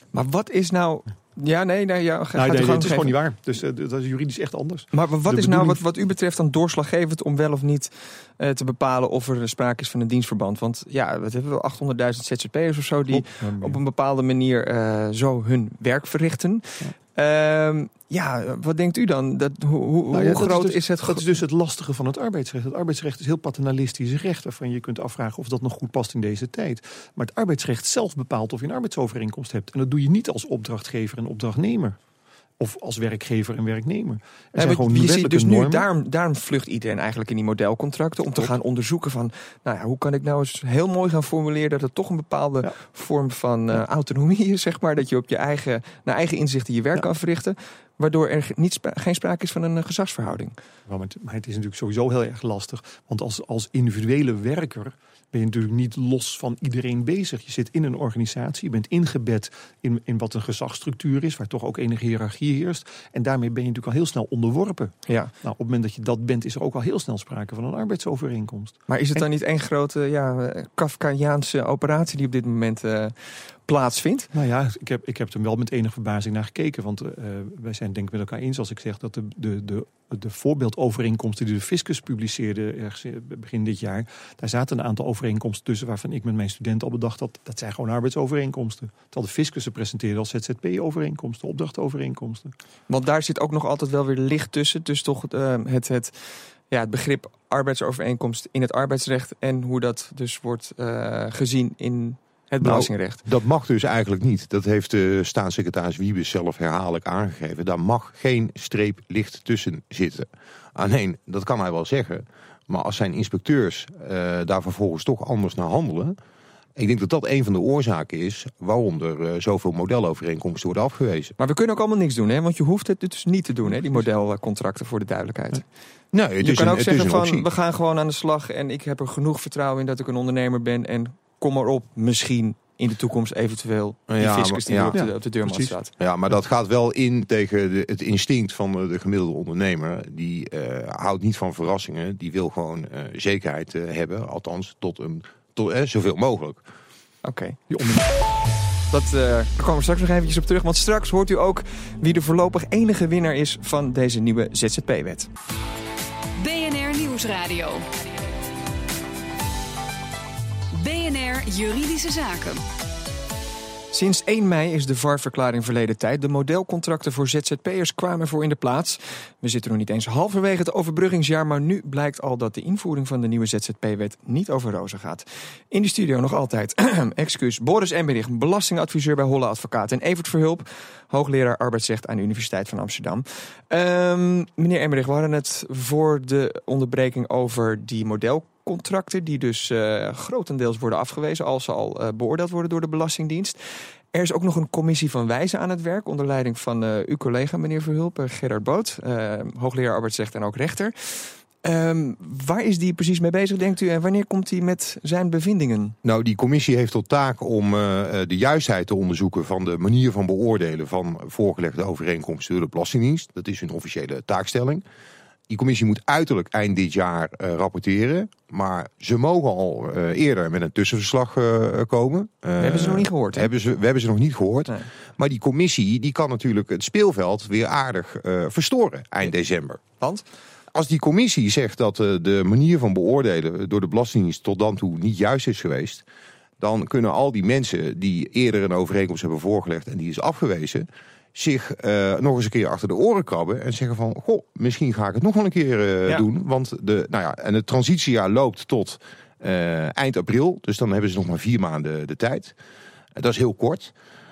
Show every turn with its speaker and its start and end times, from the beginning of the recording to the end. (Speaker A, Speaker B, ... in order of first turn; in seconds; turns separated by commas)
Speaker A: 0.1-3.2, Speaker B: 2.4-5.8, Speaker A: 4.9-21.2, Speaker B: 13.1-13.8, Speaker B: 20.1-32.0, Speaker B: 32.6-35.9, Speaker A: 34.6-50.6, Speaker B: 50.9-69.2, Speaker A: 65.1-65.3, Speaker A: 68.9-74.3, Speaker B: 74.3-92.5, Speaker A: 92.9-103.2, Speaker C: 102.6-116.2, Speaker C: 116.8-121.3, Speaker A: 121.4-125.7, Speaker C: 126.1-127.5, Speaker A: 126.4-135.9, Speaker C: 134.1-135.0, Speaker B: 134.9-135.8, Speaker C: 136.0-146.6, Speaker A: 147.2-147.6, Speaker B: 147.7-148.1, Speaker A: 148.9-155.3, Speaker D: 156.4-157.9, Speaker D: 160.7-162.6, Speaker A: 163.9-193.6, Speaker A: 194.1-206.0, Speaker C: 206.0-214.8, Speaker C: 215.5-229.8, Speaker A: 222.6-223.5, Speaker C: 230.7-236.0, Speaker C: 236.6-252.6, Speaker C: 253.2-253.9